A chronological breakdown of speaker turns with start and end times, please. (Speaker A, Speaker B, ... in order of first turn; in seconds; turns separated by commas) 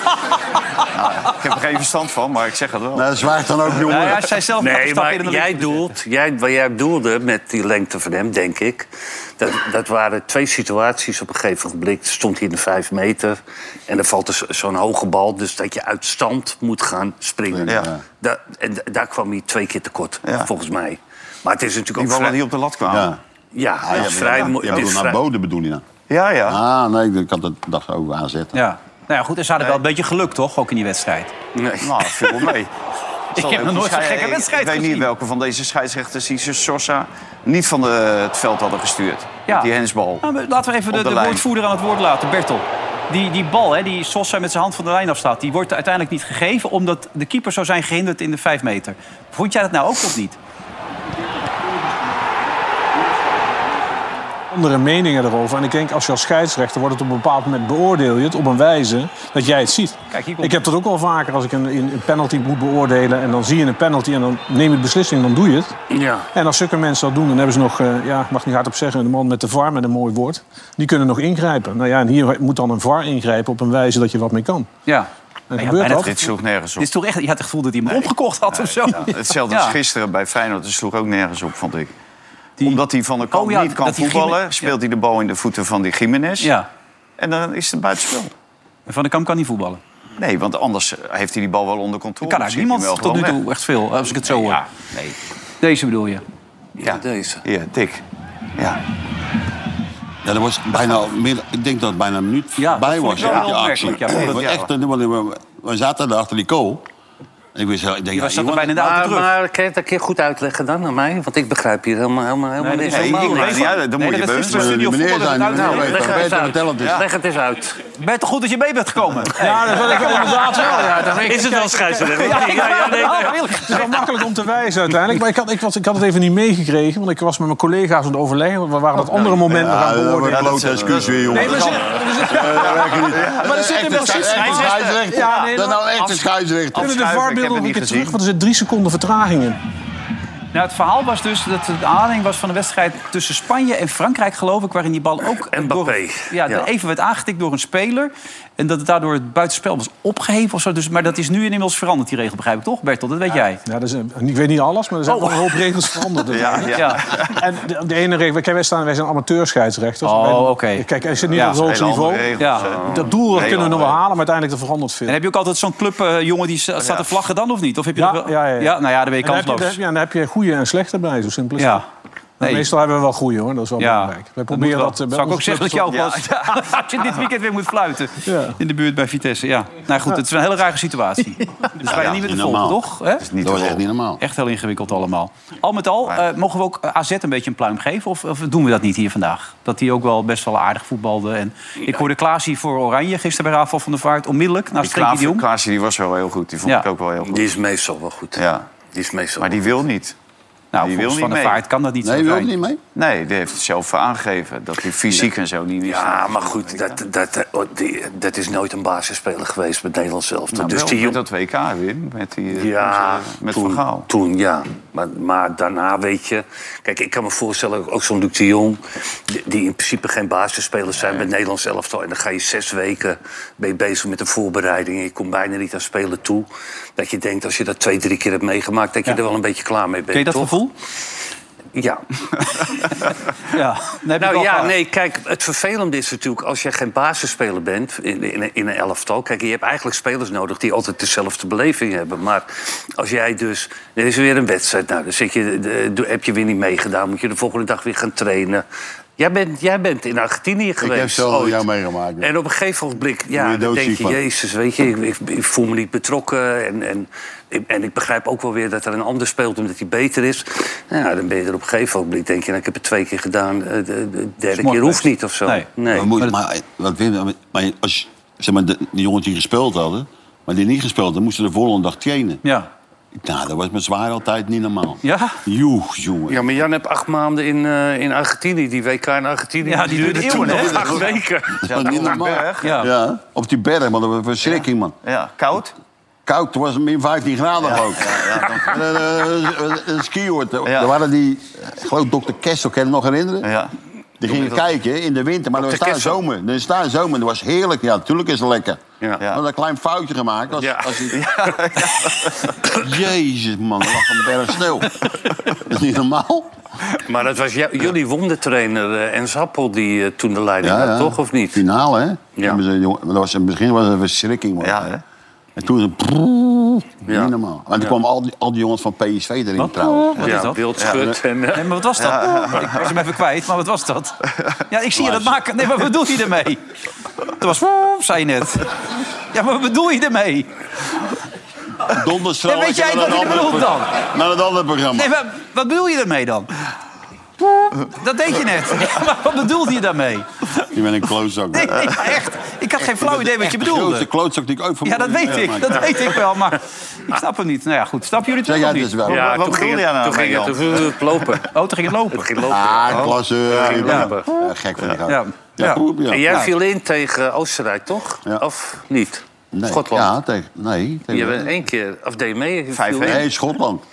Speaker A: 0.9-3.1, Speaker B: 2.9-4.3, Speaker C: 3.8-5.9, Speaker D: 4.6-22.4, Speaker B: 17.5-18.0, Speaker A: 22.0-23.2, Speaker B: 22.9-23.2, Speaker D: 23.5-25.2, Speaker B: 23.8-25.8, Speaker A: 24.0-24.7, Speaker A: 26.1-26.6, Speaker B: 26.4-28.6, Speaker C: 28.5-31.3, Speaker D: 31.5-32.5, Speaker A: 31.8-32.7, Speaker C: 33.3-35.1, Speaker A: 33.4-40.2, Speaker C: 40.2-50.4, Speaker A: 40.9-41.4, Speaker E: 54.5-65.8, Speaker C: 60.1-60.6, Speaker D: 65.9-66.3, Speaker E: 66.3-74.7, Speaker C: 74.9-79.8, Speaker E: 75.5-76.1, Speaker A: 76.0-76.9, Speaker A: 77.8-81.9, Speaker C: 82.6-84.7, Speaker A: 82.6-86.5, Speaker C: 86.4-86.7, Speaker A: 87.2-88.3, Speaker C: 88.9-89.8, Speaker A: 90.2-93.4, Speaker C: 92.2-94.6, Speaker A: 94.2-95.2, Speaker C: 95.6-96.2, Speaker D: 96.8-97.4, Speaker A: 96.8-98.0, Speaker B: 100.2-106.8, Speaker C: 102.6-104.4, Speaker A: 103.2-103.5, Speaker A: 104.0-104.7, Speaker B: 107.5-108.8, Speaker C: 108.1-109.3, Speaker D: 108.7-113.8, Speaker C: 112.6-116.1, Speaker A: 112.9-114.8, Speaker B: 114.5-117.0, Speaker D: 115.5-117.8, Speaker C: 118.0-121.0, Speaker E: 119.4-123.0, Speaker D: 120.7-123.5, Speaker C: 122.0-124.3, Speaker E: 123.6-130.6, Speaker B: 129.5-137.0, Speaker A: 130.3-135.6, Speaker E: 131.3-132.8, Speaker E: 133.4-136.0, Speaker A: 136.7-138.2, Speaker E: 136.7-139.6, Speaker C: 140.5-153.6, Speaker D: 145.5-146.7, Speaker E: 153.6-165.2, Speaker C: 155.1-155.7, Speaker A: 156.3-157.5, Speaker C: 156.6-157.1, Speaker C: 160.0-161.6, Speaker A: 161.4-164.0, Speaker C: 162.4-162.7, Speaker D: 162.5-163.1, Speaker C: 165.1-169.8, Speaker A: 166.8-167.0, Speaker E: 167.9-171.8, Speaker C: 171.6-171.8, Speaker C: 172.4-172.7, Speaker E: 172.4-176.0, Speaker C: 173.8-183.2, Speaker A: 175.9-176.6, Speaker E: 178.2-178.6, Speaker A: 181.9-182.2, Speaker B: 181.9-182.8, Speaker A: 183.2-183.8, Speaker B: 183.4-184.2, Speaker C: 184.2-195.4, Speaker A: 194.8-197.4, Speaker D: 197.2-199.8, Speaker A: 198.3-198.7, Speaker A: 199.4-200.1, Speaker C: 200.7-202.5, Speaker A: 200.8-201.6, Speaker B: 202.0-202.8, Speaker A: 202.9-207.0, Speaker D: 205.8-211.2, Speaker A: 210.5-214.1, Speaker D: 212.5-230.6, Speaker C: 230.1-230.7, Speaker D: 231.7-232.0, Speaker C: 233.5-234.7, Speaker D: 234.2-248.6, Speaker D: 249.2-251.7, Speaker B: 250.8-252.3, Speaker D: 252.2-266.1, Speaker B: 253.3-254.2, Speaker C: 264.6-266.3, Speaker B: 265.9-272.4, Speaker C: 272.4-272.7, Speaker B: 273.1-276.5, Speaker C: 275.0-275.4, Speaker D: 276.3-282.2, Speaker C: 279.6-281.0, Speaker A: 280.1-281.1, Speaker B: 280.5-285.0, Speaker A: 281.6-282.8, Speaker C: 282.6-282.9, Speaker A: 284.4-285.7, Speaker B: 286.2-293.5, Speaker A: 287.6-288.8, Speaker A: 290.7-290.9, Speaker A: 293.4-293.7, Speaker B: 294.2-301.2, Speaker A: 294.3-294.6, Speaker D: 295.6-296.2, Speaker D: 300.6-301.1, Speaker A: 301.1-302.6, Speaker B: 302.8-306.5, Speaker D: 307.1-311.6, Speaker B: 310.6-314.9, Speaker A: 314.6-315.0, Speaker B: 315.6-320.4, Speaker D: 317.1-317.3, Speaker C: 319.6-320.6, Speaker D: 320.2-321.7, Speaker C: 321.5-326.6, Speaker A: 322.0-322.9, Speaker B: 325.0-325.3, Speaker C: 327.4-328.7, Speaker C: 329.3-330.5, Speaker B: 331.9-335.1, Speaker C: 332.4-334.0, Speaker C: 334.9-336.5, Speaker C: 337.6-340.5, Speaker B: 340.7-342.0, Speaker C: 341.5-344.1, Speaker B: 342.8-346.1, Speaker C: 344.8-349.0, Speaker B: 348.4-349.5, Speaker D: 349.1-351.5, Speaker A: 349.1-350.9, Speaker C: 351.5-352.4, Speaker D: 352.1-354.3, Speaker B: 352.4-356.4, Speaker A: 353.7-354.0, Speaker C: 355.1-356.5, Speaker D: 356.1-360.1, Speaker B: 359.5-361.5, Speaker D: 361.1-363.2, Speaker A: 362.7-363.2, Speaker B: 363.0-363.8